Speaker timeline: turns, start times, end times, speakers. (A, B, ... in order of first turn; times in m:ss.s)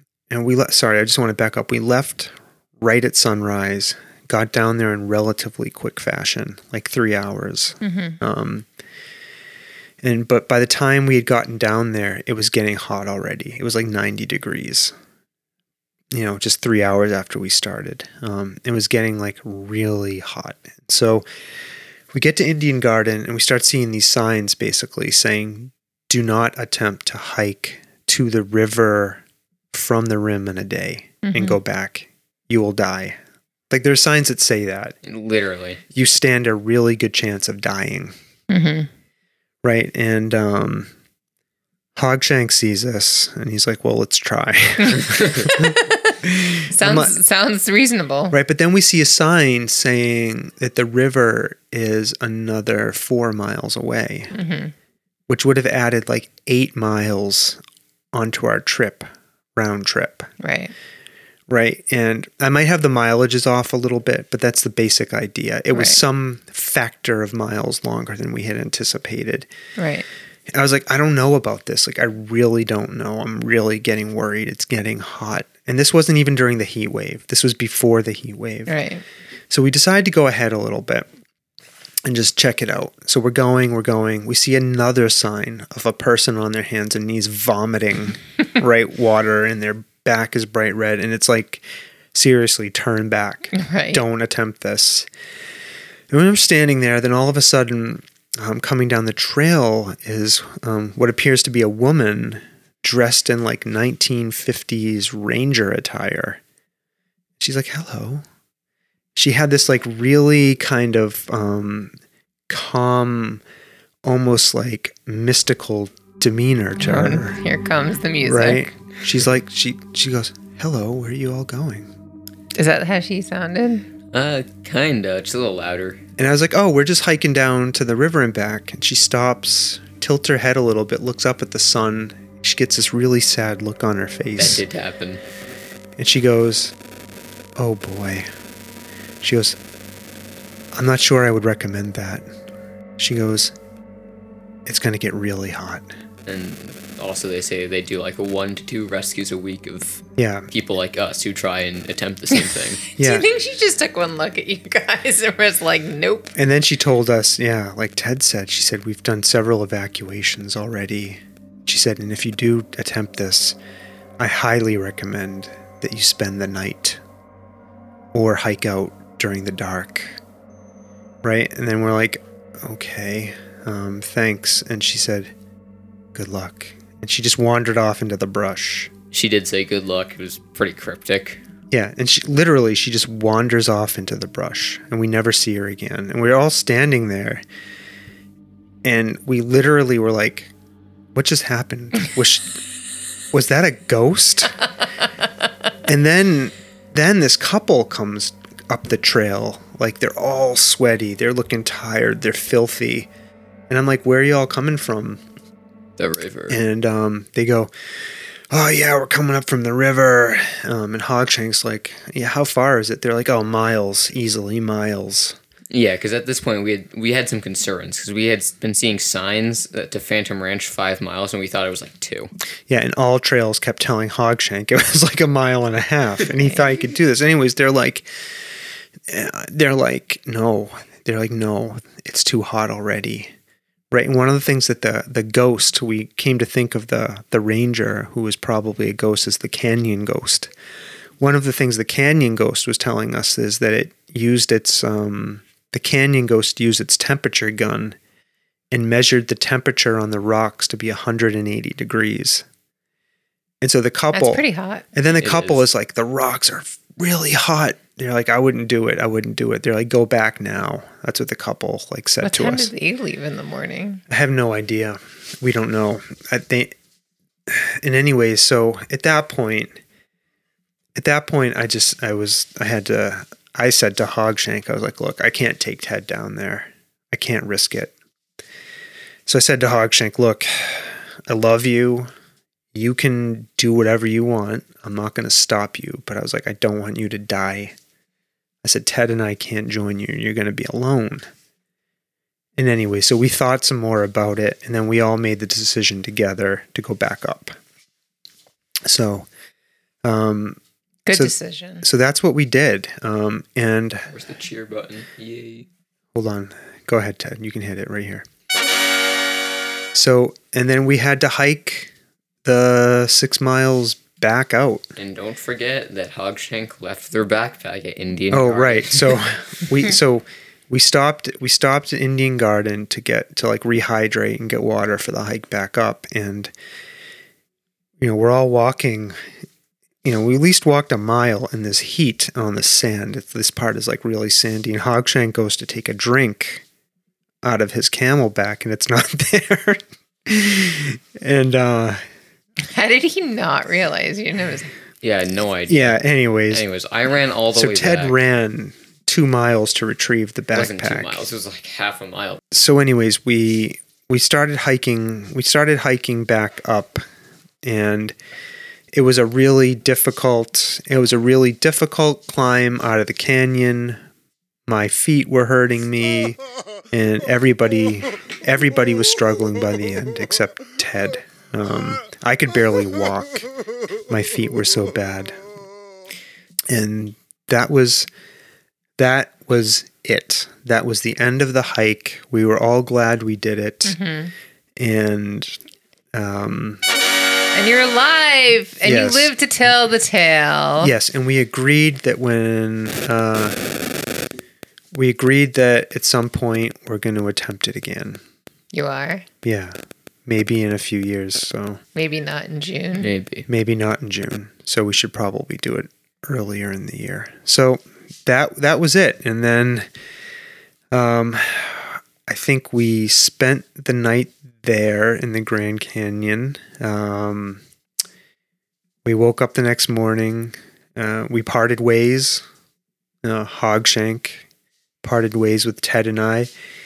0:00.3-0:08.6 A
0:07.8-0:08.2 B
0:10.0-0:14.9 A
0:16.1-0:21.2 A
0:22.1-0:29.2 A
0:29.7-0:33.2 A
0:31.2-0:31.6 B
0:33.7-0:34.9 A
0:35.0-0:35.8 C
0:35.9-0:38.1 A
0:38.5-0:38.9 B
0:39.6-0:40.9 A
0:41.9-0:47.2 A
0:44.8-0:48.3 B
0:45.1-0:45.4 C
0:48.3-0:54.3 A
0:54.3-0:54.7 B
0:55.3-0:57.6 A
0:58.1-1:00.3 A
1:00.4-1:00.7 B
1:01.5-1:09.5 A
1:05.7-1:06.0 B
1:09.8-1:10.0 B
1:10.5-1:18.7 A
1:18.7-1:19.0 B
1:19.5-1:21.1 A
1:22.0-1:31.6 A
1:32.1-1:35.1 A
1:33.5-1:34.0 B
1:36.1-1:46.4 A
1:47.4-1:48.2 A
1:49.1-1:51.9 A
1:52.5-1:53.4 A
1:54.0-1:57.4 A
1:56.8-1:58.7 B
1:58.2-2:01.9 A
2:02.5-2:03.9 B
2:04.1-2:06.0 C
2:06.2-2:14.6 A
2:14.4-2:15.2 C
2:16.0-2:16.7 A
2:17.6-2:18.3 A
2:19.2-2:19.6 A
2:20.7-2:22.2 A
2:23.0-2:23.5 A
2:24.6-2:25.9 A
2:26.2-2:32.8 C
2:30.2-2:30.5 A
2:32.9-2:36.3 B
2:33.0-2:33.3 A
2:36.3-2:43.6 A
2:44.2-2:47.0 A
2:48.1-2:50.1 A
2:51.2-2:55.3 A
2:56.1-2:58.9 A
2:59.1-3:01.4 C
3:01.7-3:07.4 A
3:08.8-3:10.5 A
3:11.1-3:12.6 A
3:13.3-3:14.6 A
3:15.8-3:23.1 A
3:23.7-3:25.2 A
3:26.0-3:26.6 C
3:26.5-3:27.7 A
3:28.5-3:35.4 A
3:35.7-3:42.3 C
3:42.7-3:48.0 A
3:49.1-3:53.3 A
3:53.9-4:00.5 A
4:01.2-4:08.0 A
4:08.7-4:12.4 A
4:13.6-4:22.7 A
4:14.1-4:14.8 B
4:15.2-4:15.6 C
4:22.2-4:24.0 B
4:24.1-4:26.7 A
4:27.5-4:29.8 A
4:31.0-4:37.9 A
4:39.2-4:42.1 A
4:42.7-4:47.7 A
4:48.6-4:51.2 A
4:52.6-4:57.6 A
4:58.8-4:59.3 A
5:00.0-5:00.6 A
5:01.0-5:01.8 B
5:01.1-5:04.1 A
5:04.1-5:05.7 C
5:06.1-5:08.2 A
5:09.9-5:11.9 A
5:12.4-5:14.8 A
5:15.0-5:19.2 C
5:18.3-5:26.5 A
5:28.0-5:29.1 A
5:30.0-5:36.6 A
5:37.4-5:42.0 A
5:42.6-5:44.7 B
5:45.0-5:48.2 C
5:45.7-5:46.6 A
5:47.5-5:51.3 A
5:50.5-5:52.4 C
5:52.5-5:57.0 A
5:57.6-5:58.2 A
5:58.9-6:04.0 A
6:04.7-6:06.4 A
6:06.9-6:13.5 A
6:14.1-6:15.4 A
6:16.7-6:18.1 A
6:19.0-6:24.0 A
6:23.8-6:24.3 B
6:24.8-6:25.6 A
6:26.1-6:26.8 A
6:27.5-6:30.9 B
6:28.8-6:29.3 A
6:30.8-6:33.6 A
6:34.9-6:38.2 A
6:38.7-6:39.2 B
6:39.4-6:41.8 A
6:41.9-6:43.1 B
6:43.0-6:43.5 C
6:43.5-6:49.9 A
6:50.9-6:57.6 A
6:59.0-7:02.4 A
7:03.2-7:04.4 A
7:05.0-7:06.5 A